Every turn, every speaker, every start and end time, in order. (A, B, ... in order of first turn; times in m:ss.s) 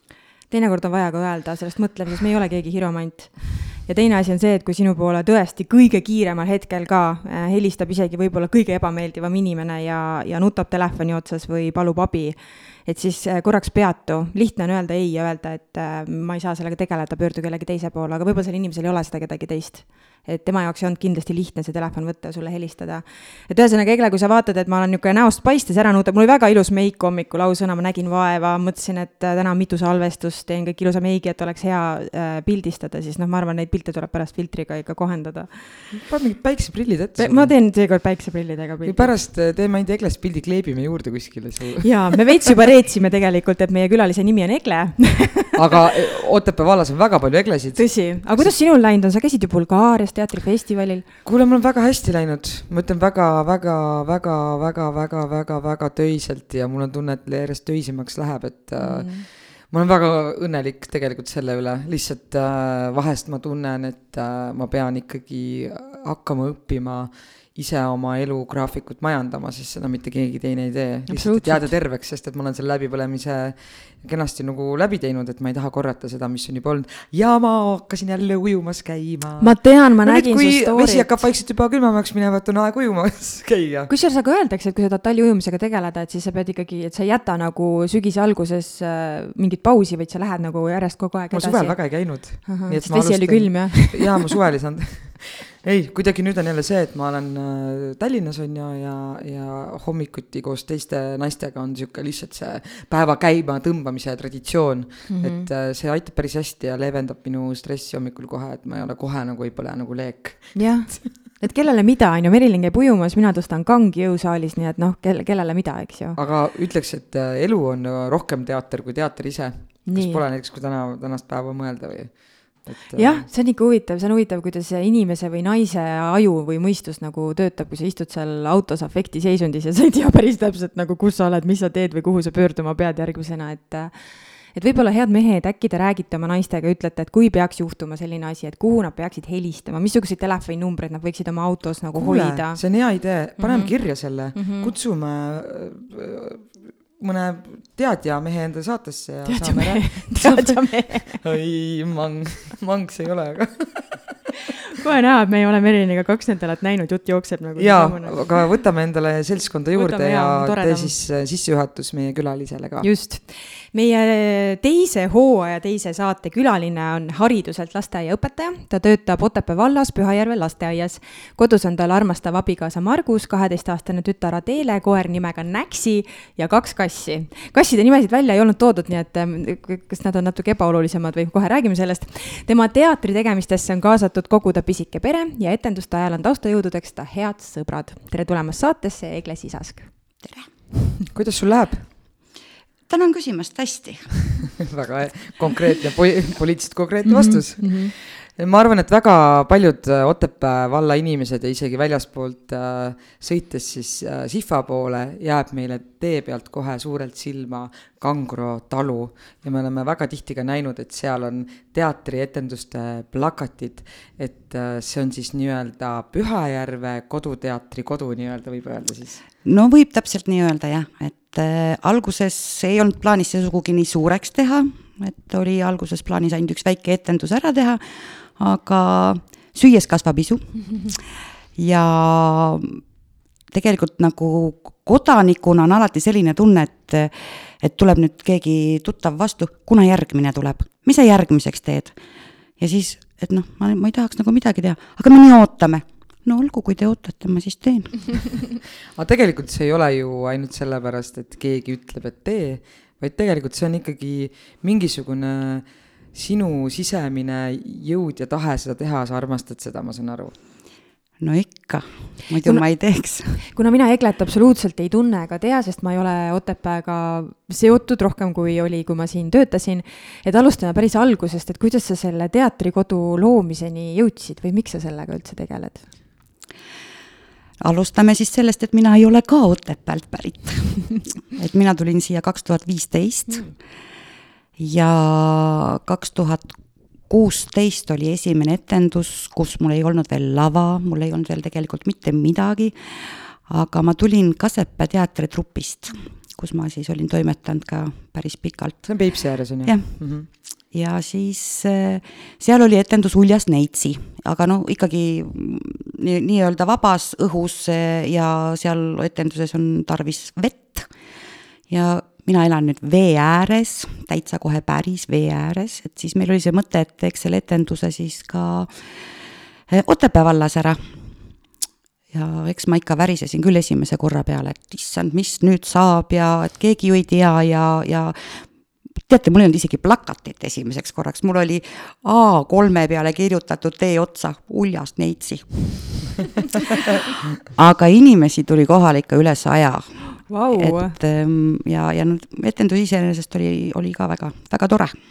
0:00.5-0:35.9 A
0:35.9-0:37.6 B
0:37.2-0:39.1 A
0:38.8-0:42.5 B
0:41.8-0:45.9 A
0:45.5-0:48.6 B
0:47.8-0:51.1 A
0:51.2-1:23.9 B
0:58.8-0:59.2 A
1:11.1-1:11.7 A
1:19.4-1:21.2 A
1:23.9-1:34.2 A
1:31.3-1:51.0 B
1:45.1-1:45.5 A
1:50.5-1:56.2 A
1:56.2-2:03.3 B
1:59.8-2:00.2 A
2:02.9-2:22.8 A
2:21.9-2:34.2 B
2:23.4-2:24.7 A
2:29.2-2:31.2 A
2:34.7-2:38.4 A
2:37.6-2:42.9 B
2:39.7-2:40.9 A
2:42.8-3:10.2 A
3:10.2-3:10.5 C
3:11.1-3:11.9 B
3:12.9-3:14.5 C
3:14.6-3:39.2 B
3:17.0-3:17.9 A
3:39.4-3:52.8 C
3:53.5-4:02.0 C
4:02.6-4:08.4 C
4:09.0-4:20.4 B
4:21.2-4:23.4 C
4:23.4-4:35.9 A
4:37.6-4:43.6 C
4:43.3-4:43.5 A
4:44.6-4:59.1 C
4:58.8-5:00.3 B
4:59.6-5:10.9 C
5:11.7-5:18.8 C
5:19.7-5:20.9 C
5:22.1-5:28.4 C
5:29.1-5:36.0 C
5:37.4-5:44.9 C
5:40.1-5:41.0 A